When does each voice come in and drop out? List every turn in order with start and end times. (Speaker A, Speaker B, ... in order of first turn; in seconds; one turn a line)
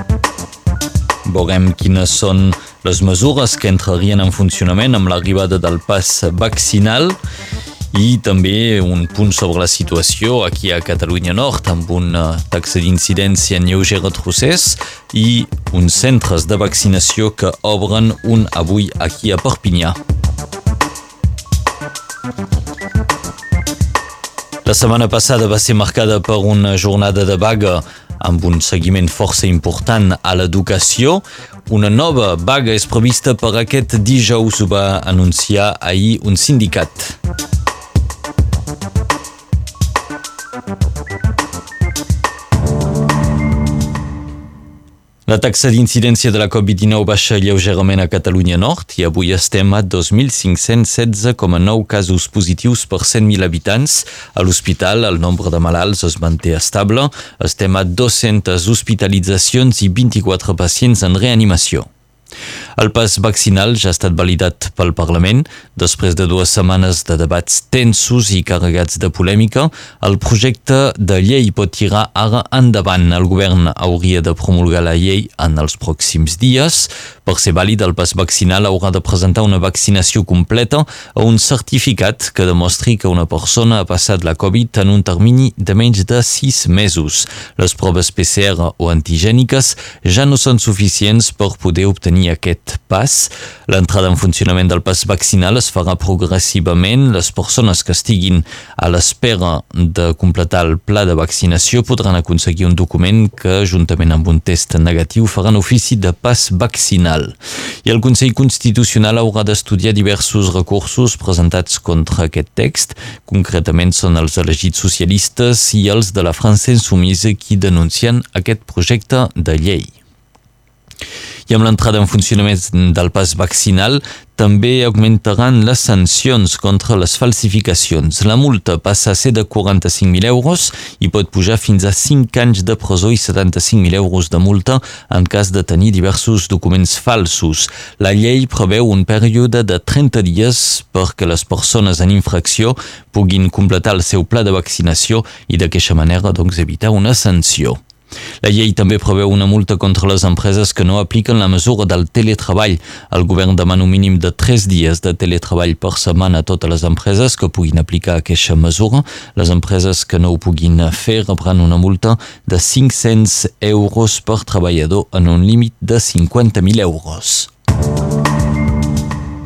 Speaker A: 1.2-7.2
Speaker A: 7.9-20.0
Speaker A: 24.6-37.2
Speaker A: 45.3-61.9
Speaker A: 62.8-119.9
Speaker A: 121.5-147.8
Speaker A: 148.4-167.5